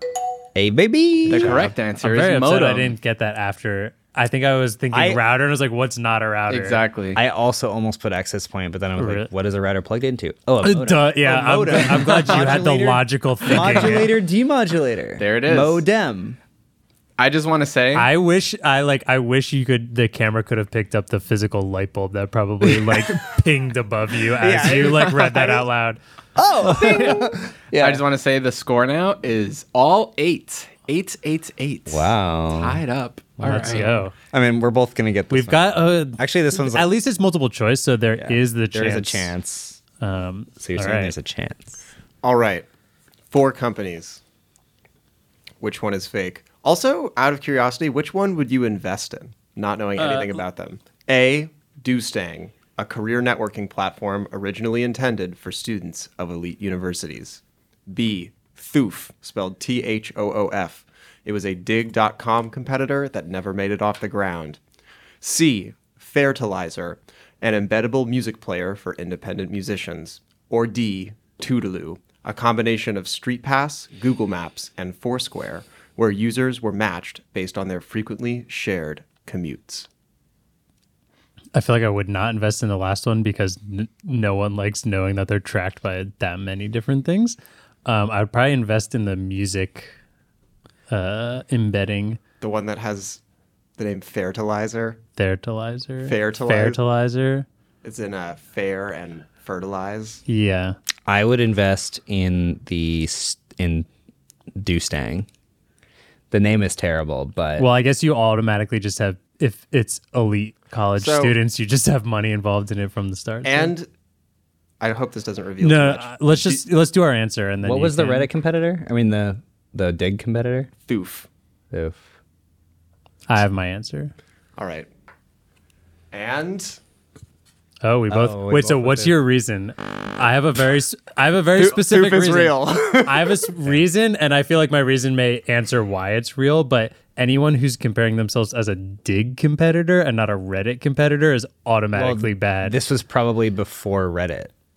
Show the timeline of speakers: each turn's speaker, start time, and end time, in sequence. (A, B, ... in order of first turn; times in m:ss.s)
0:00.6-0:01.7 A
0:01.3-0:03.0 B
0:02.0-0:06.8 C
0:04.9-0:05.2 A
0:06.5-0:07.2 B
0:07.2-0:16.4 A
0:09.0-0:09.3 C
0:10.6-0:14.2 C
0:15.2-0:15.8 B
0:17.2-0:18.1 B
0:17.9-0:26.0 C
0:22.7-0:23.1 A
0:24.4-0:25.7 A
0:26.4-0:28.0 A
0:26.6-0:27.3 C
0:27.7-0:34.0 B
0:31.9-0:32.8 A
0:33.4-0:34.1 C
0:33.5-0:36.9 A
0:35.3-0:39.3 C
0:38.2-0:39.8 A
0:40.0-0:41.2 C
0:40.6-0:41.8 A
0:42.2-0:42.7 D
0:43.3-0:44.2 D
0:45.6-1:04.6 D
0:50.0-0:50.4 C
1:05.2-1:19.9 D
1:21.5-1:29.9 C
1:30.9-1:32.2 C
1:32.4-1:33.2 D
1:33.8-1:35.0 D
1:35.2-1:37.5 C
1:36.0-1:36.8 D
1:37.8-1:40.2 D
1:40.3-1:40.8 C
1:41.1-1:43.9 A
1:44.6-1:45.3 A
1:46.3-1:47.7 A
1:47.6-1:53.7 C
1:51.0-1:51.4 D
1:53.4-1:53.9 D
1:54.8-1:56.6 D
1:55.6-1:58.3 C
1:57.6-2:00.7 A
2:00.8-2:01.3 D
2:01.7-2:02.1 A
2:03.3-2:04.1 C
2:04.6-2:04.9 D
2:06.1-2:06.8 D
2:07.8-2:22.8 C
2:08.1-2:09.2 A
2:11.6-2:13.5 D
2:22.6-2:24.5 A